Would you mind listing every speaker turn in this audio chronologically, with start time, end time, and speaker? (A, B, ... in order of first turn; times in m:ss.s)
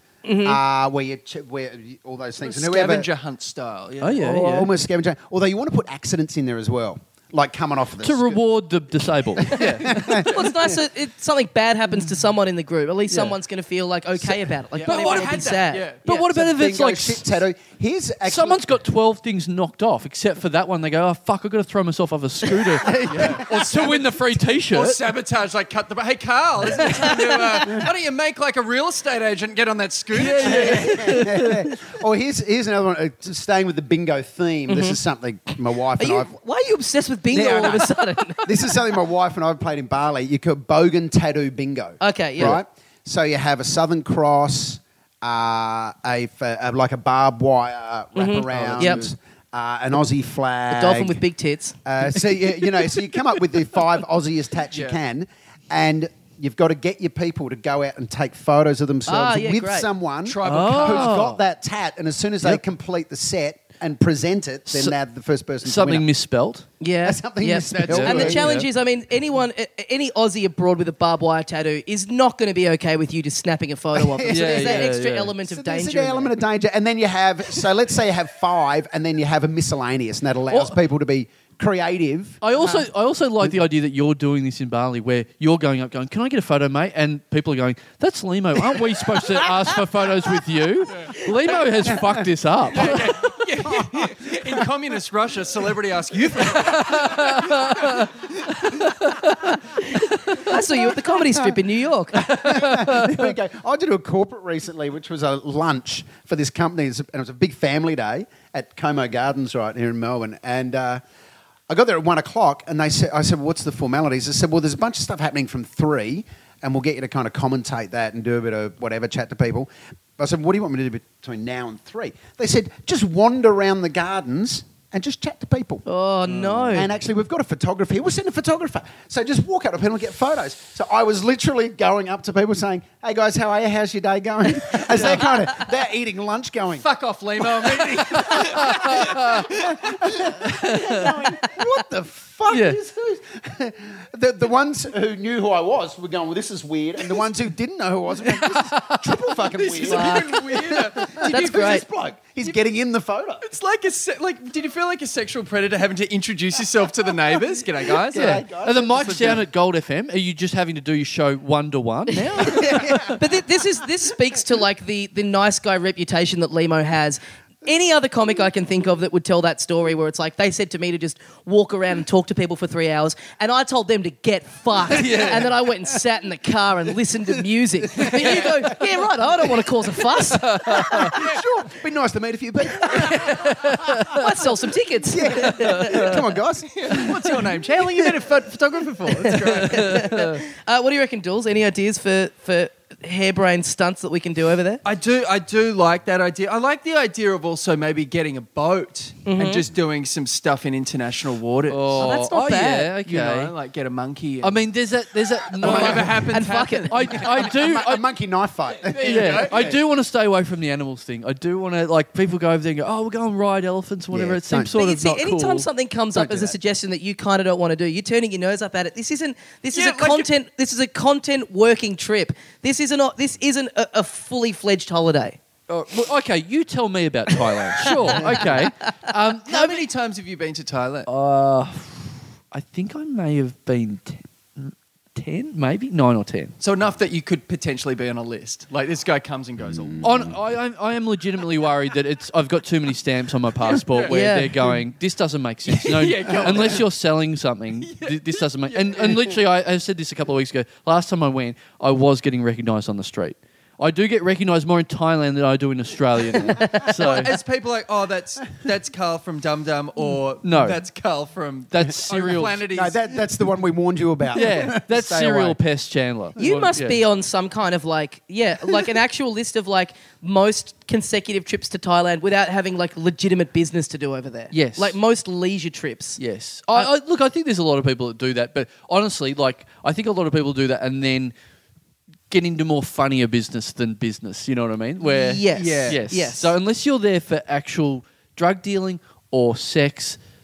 0:00.2-0:00.6 A
0:00.4-0:03.1 B
0:02.4-0:04.2 C
0:04.0-0:04.7 D
0:04.2-0:08.4 B
0:08.0-0:10.3 D
0:09.4-0:10.8 B
0:09.5-0:16.3 A
0:13.1-0:13.4 D
0:14.8-0:16.0 C
0:16.0-0:17.2 D
0:16.3-0:18.6 B
0:18.2-0:25.0 D
0:22.7-0:23.4 B
0:23.1-0:31.0 C
0:26.8-0:27.6 A
0:30.1-0:31.7 D
0:30.4-0:36.3 B
0:34.7-0:35.0 A
0:36.0-0:38.8 A
0:37.3-0:51.2 B
0:42.0-0:42.6 A
0:48.2-0:49.0 A
0:48.5-0:49.1 D
0:50.7-0:51.8 A
0:51.8-1:06.1 B
0:59.1-0:59.9 A
1:00.2-1:01.3 C
1:00.4-1:01.4 D
1:04.7-1:05.0 D
1:05.6-1:06.7 D
1:06.8-1:16.4 A
1:07.0-1:08.5 B
1:07.7-1:08.7 D
1:13.9-1:22.4 B
1:14.3-1:15.3 D
1:22.4-1:33.2 D
1:32.7-1:38.1 C
1:33.6-1:34.1 B
1:36.6-1:40.6 D
1:39.9-1:42.7 A
1:40.5-1:41.5 B
1:42.2-1:51.0 B
1:42.2-1:43.3 D
1:51.7-2:05.8 B
2:05.8-2:06.9 A
2:06.3-2:06.8 D
2:06.7-2:16.8 B
2:14.9-2:15.2 D
2:16.7-2:20.2 C
2:17.4-2:33.4 B
2:18.3-2:19.5 D
2:20.4-2:21.1 D
2:22.5-2:22.8 D
2:28.4-2:29.0 D
2:29.5-2:31.7 C
2:29.8-2:30.4 A
2:31.2-2:31.8 A
2:33.4-2:39.4 C
2:38.0-2:39.4 B
2:38.1-2:43.2 D
2:42.4-3:01.3 A
2:42.5-2:43.2 B
2:54.9-2:55.5 D
2:58.0-2:58.7 B
2:58.2-2:58.5 C
3:00.2-3:01.2 D
3:00.7-3:04.2 B
3:02.9-3:03.3 A
3:02.9-3:04.3 D
3:04.0-3:06.2 A
3:05.1-3:07.2 B
3:05.4-3:06.2 D
3:06.7-3:10.1 C
3:09.2-3:14.8 A
3:09.4-3:10.4 D
3:14.8-3:22.1 C
3:19.2-3:19.6 A
3:21.7-3:23.5 D
3:22.0-3:22.9 A
3:23.0-3:24.6 C
3:24.4-3:26.2 D
3:25.5-3:27.5 C
3:25.6-3:27.2 A
3:26.9-3:28.0 D
3:27.4-3:29.8 B
3:28.8-3:29.8 C
3:29.0-3:35.7 D
3:34.1-3:34.7 B
3:34.7-3:45.4 A
3:36.1-3:36.5 B
3:39.7-3:40.3 C
3:45.7-3:49.8 D
3:47.8-3:48.5 A
3:48.1-3:48.4 B
3:49.5-3:51.1 C
3:51.0-3:56.5 D
3:56.6-4:00.2 C
4:00.0-4:17.4 D
4:03.7-4:04.1 C
4:04.1-4:04.7 A
4:05.7-4:06.8 C
4:07.8-4:09.4 C
4:16.6-4:23.2 C
4:20.4-4:20.8 D
4:21.7-4:22.6 D
4:22.7-4:25.6 B
4:24.3-4:27.0 D
4:26.4-4:36.2 A
4:34.5-4:35.0 D
4:36.2-4:41.3 D
4:42.3-4:50.2 D
4:45.0-4:46.5 A
4:45.5-4:46.0 C